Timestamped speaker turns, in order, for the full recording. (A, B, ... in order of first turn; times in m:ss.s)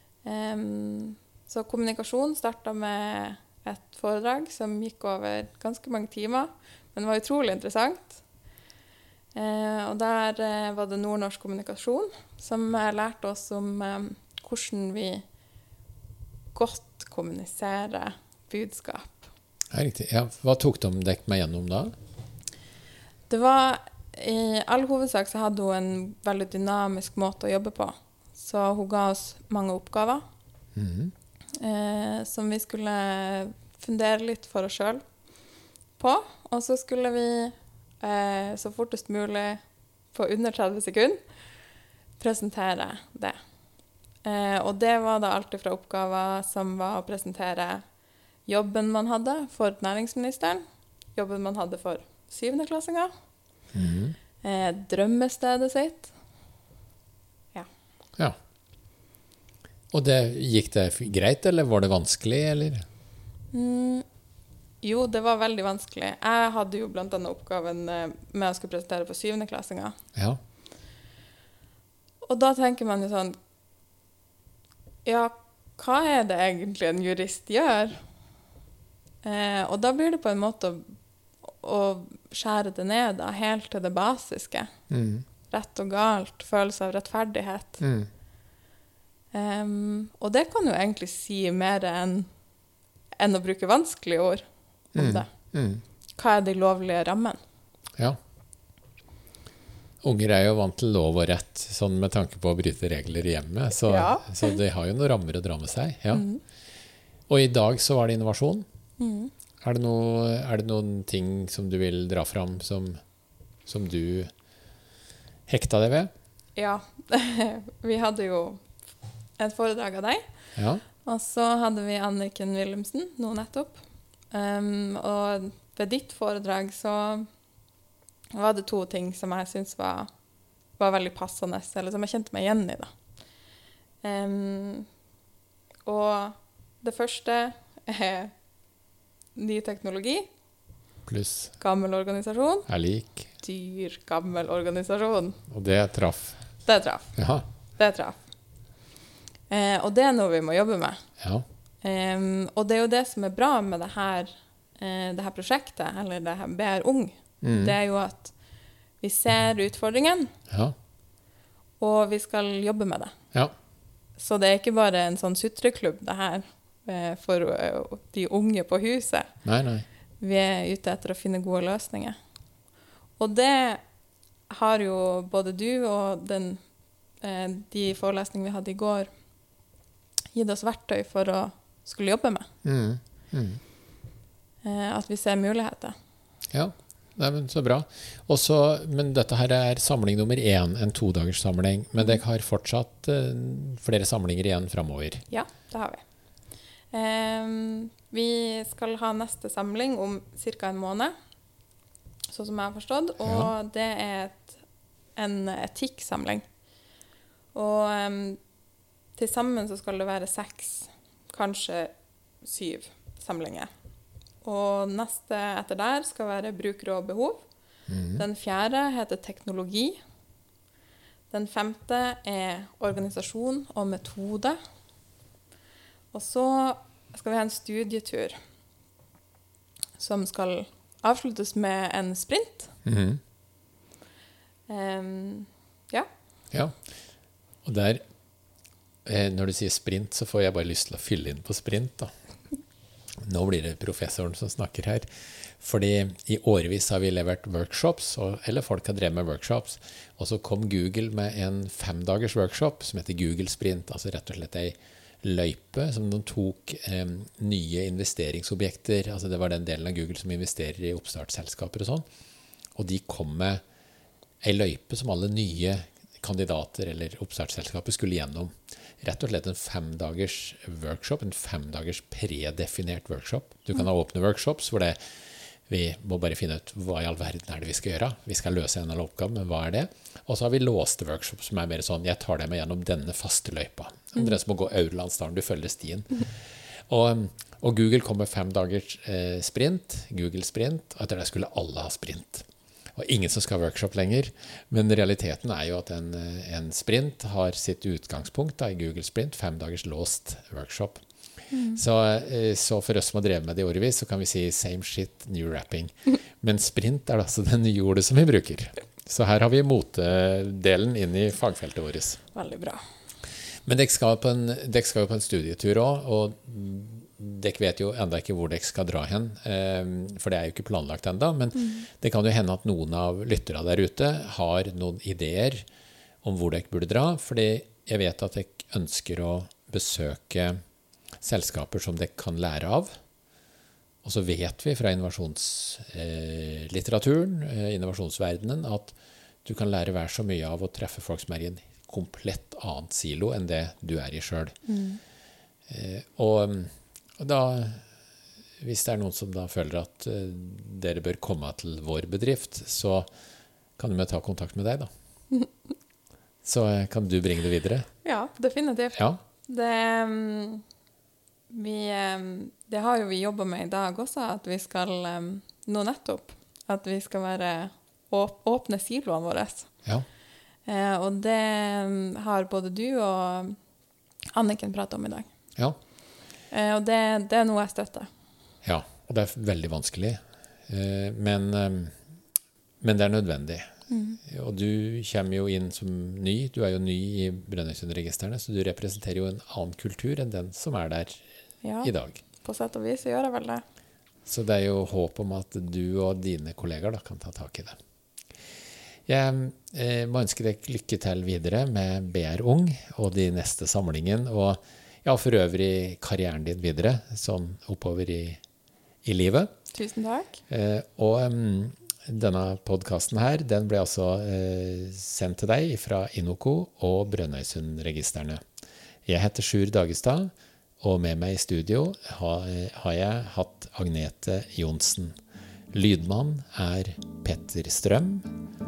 0:00.2-0:08.2 A
0:09.3-0:15.2 A
0:16.5-0:19.2 A
0:19.7-0:21.9 B
0:23.3-0:30.2 A
0:30.8-0:31.1 B
0:31.6-0:35.0 A
0:36.0-0:39.6 A
0:40.1-0:41.2 A
0:42.2-0:43.4 A
0:44.2-0:47.8 A
0:48.4-0:50.6 A
0:51.1-0:53.1 A
0:53.7-0:54.2 B
0:54.4-0:56.1 A
0:59.9-1:02.8 B
1:03.5-1:04.0 A
1:04.8-1:10.0 A
1:12.2-1:13.4 A
1:15.0-1:18.0 A
1:19.2-1:24.7 A
1:24.9-1:25.2 B
1:25.5-1:27.8 A
1:27.8-1:28.1 B
1:29.3-1:32.3 A
1:33.2-1:34.4 A
1:34.9-1:35.3 A
1:34.9-1:35.8 B
1:36.2-1:37.4 A
1:40.0-1:46.3 B
1:43.8-1:44.6 A
1:46.1-1:46.4 A
1:47.3-1:48.6 B
1:49.0-1:49.3 A
1:49.6-1:53.0 B
1:53.6-1:54.3 B
1:55.5-1:56.1 B
1:56.6-1:58.6 A
1:59.4-2:00.2 A
2:00.6-2:00.8 B
2:01.0-2:07.3 A
2:08.3-2:10.1 A
2:10.8-2:12.9 A
2:14.0-2:14.9 A
2:15.8-2:18.3 A
2:19.4-2:20.2 A
2:21.1-2:21.5 B
2:21.6-2:22.7 A
2:22.7-2:23.3 B
2:23.4-2:25.4 A
2:25.5-2:26.4 B
2:26.6-2:27.2 A
2:27.2-2:27.4 B
2:27.7-2:28.2 A
2:29.5-2:31.0 A
2:31.2-2:31.4 B
2:31.8-2:38.3 A
2:37.4-2:37.8 B
2:39.0-2:40.3 A
2:40.5-2:40.7 B
2:41.8-2:43.1 A
2:44.2-2:49.3 A
2:49.4-2:49.8 B
2:50.2-2:52.1 A
2:53.2-2:53.8 A
2:54.5-2:56.6 A
2:57.2-2:59.1 A
3:00.3-3:02.5 A
3:02.6-3:03.6 B
3:04.6-3:05.9 A
3:06.5-3:15.2 B
3:15.3-3:16.0 A
3:16.9-3:21.1 A
3:22.3-3:24.6 A
3:23.2-3:23.5 B
3:25.1-3:26.4 A
3:27.5-3:28.4 A
3:29.2-3:33.7 A
3:34.4-3:37.4 A
3:37.9-3:38.2 B
3:38.1-3:40.0 A
3:41.3-3:44.6 A
3:46.1-3:48.4 A
3:50.0-3:52.7 A
3:52.8-3:53.2 B
3:54.7-3:56.1 A
3:56.5-3:56.8 B
3:57.6-3:58.0 B
3:59.0-4:02.1 B
4:03.2-4:22.0 B
4:22.7-4:23.6 B
4:24.4-4:35.0 B
4:35.7-4:46.4 B
4:46.9-5:01.0 B
5:01.5-5:01.8 A
5:01.7-5:12.2 B
5:12.3-5:12.8 A
5:13.6-5:25.6 B
5:21.5-5:21.8 A
5:26.2-5:30.6 B
5:31.2-5:32.9 B
5:34.0-5:44.6 B
5:44.6-5:45.0 A
5:45.7-5:47.8 B
5:48.6-5:53.1 B
5:53.8-5:54.9 B
5:56.4-5:57.9 B
5:58.0-6:00.6 A
5:58.9-5:59.2 B
6:01.5-6:09.7 A
6:10.6-6:13.6 A
6:14.3-6:15.3 A
6:16.5-6:18.1 A
6:18.6-6:22.0 B
6:22.8-6:23.7 B
6:23.9-6:24.2 A
6:24.2-6:31.2 B
6:31.6-6:33.6 A
6:31.8-6:32.2 B
6:34.2-6:37.8 B
6:39.1-6:48.4 B
6:49.0-6:49.5 B
6:49.7-6:50.4 A
6:50.5-6:58.4 B
6:59.0-7:05.2 B
7:05.7-7:08.3 B